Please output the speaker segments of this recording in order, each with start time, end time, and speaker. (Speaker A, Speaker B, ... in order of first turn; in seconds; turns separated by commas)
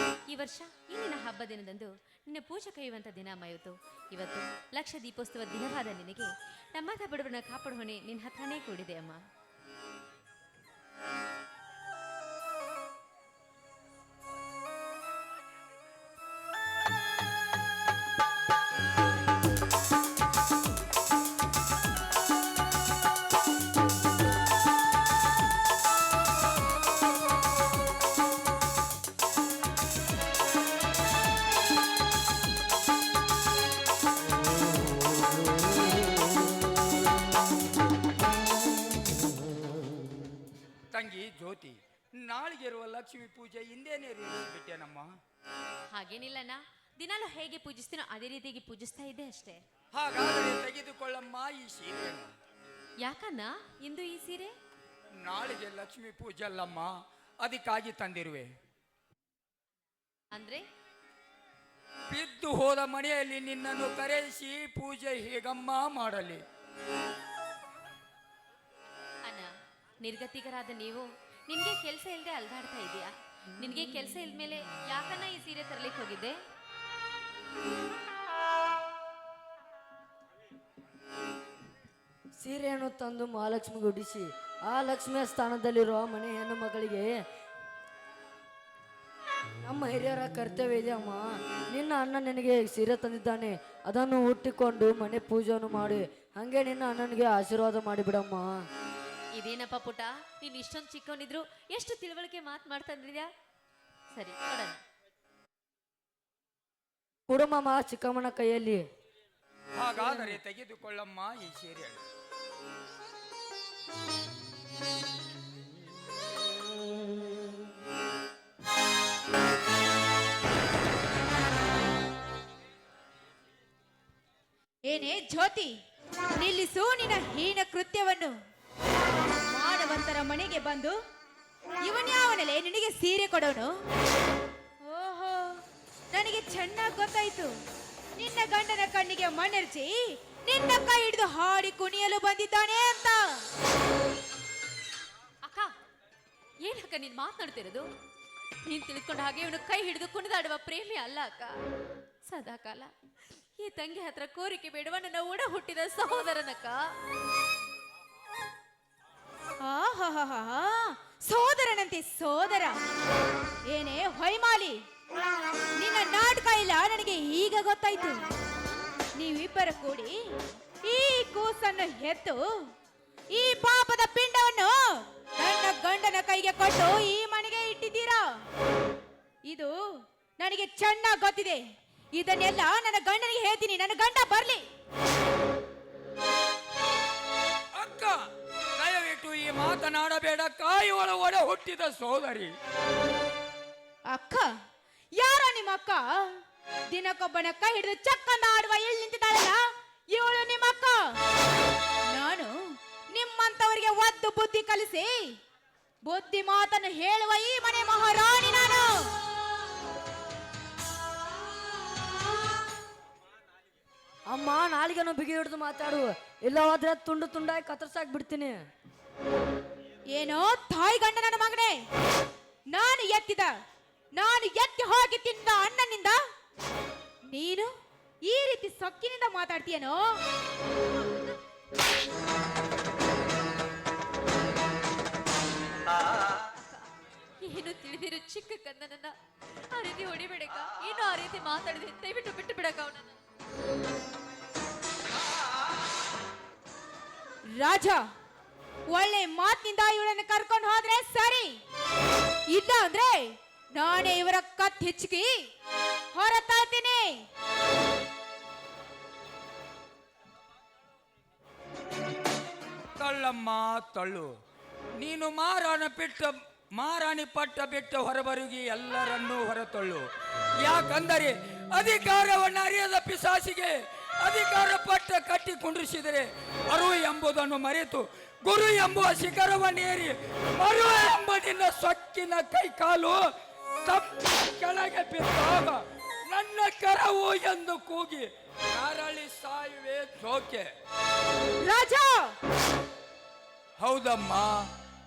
Speaker A: 0.3-9.2, Speaker B: 40.9-45.1, Speaker A: 45.9-49.6, Speaker B: 49.9-52.3, Speaker A: 53.0-54.5, Speaker B: 55.2-58.5, Speaker A: 60.3-60.6, Speaker B: 62.1-66.4, Speaker A: 69.2-76.3, Speaker C: 82.4-87.1, Speaker C: 89.6-98.5, Speaker A: 99.3-103.3, Speaker A: 104.1-104.8, Speaker C: 107.3-108.8, Speaker B: 109.8-112.0, Speaker D: 124.9-125.7, Speaker D: 126.3-128.3, Speaker D: 129.5-131.0, Speaker D: 131.8-133.7, Speaker D: 134.8-137.5, Speaker D: 138.2-143.4, Speaker A: 145.4-145.7, Speaker A: 146.6-147.9, Speaker A: 148.7-151.6, Speaker A: 152.2-152.9, Speaker A: 153.6-156.8, Speaker D: 159.6-162.8, Speaker D: 163.7-164.8, Speaker D: 165.8-168.3, Speaker D: 169.2-170.2, Speaker D: 170.8-172.4, Speaker D: 173.3-178.2, Speaker D: 179.5-179.7, Speaker D: 180.4-181.6, Speaker D: 182.2-184.6, Speaker B: 187.7-188.2, Speaker B: 188.8-192.5, Speaker D: 194.1-194.5, Speaker D: 195.2-196.4, Speaker D: 196.9-199.6, Speaker D: 200.1-201.2, Speaker D: 202.1-202.5, Speaker D: 203.1-205.3, Speaker D: 206.1-209.1, Speaker C: 214.3-218.6, Speaker D: 220.1-221.8, Speaker D: 222.7-223.5, Speaker D: 224.2-226.2, Speaker D: 227.3-227.7, Speaker D: 228.2-230.2, Speaker A: 237.4-239.1, Speaker A: 239.7-243.2, Speaker D: 247.6-248.0, Speaker D: 248.9-251.6, Speaker D: 252.5-255.4, Speaker D: 256.1-257.2, Speaker B: 262.9-264.3, Speaker B: 265.0-270.1, Speaker B: 270.6-283.3, Speaker B: 283.8-290.7, Speaker D: 291.6-292.4, Speaker B: 293.8-294.7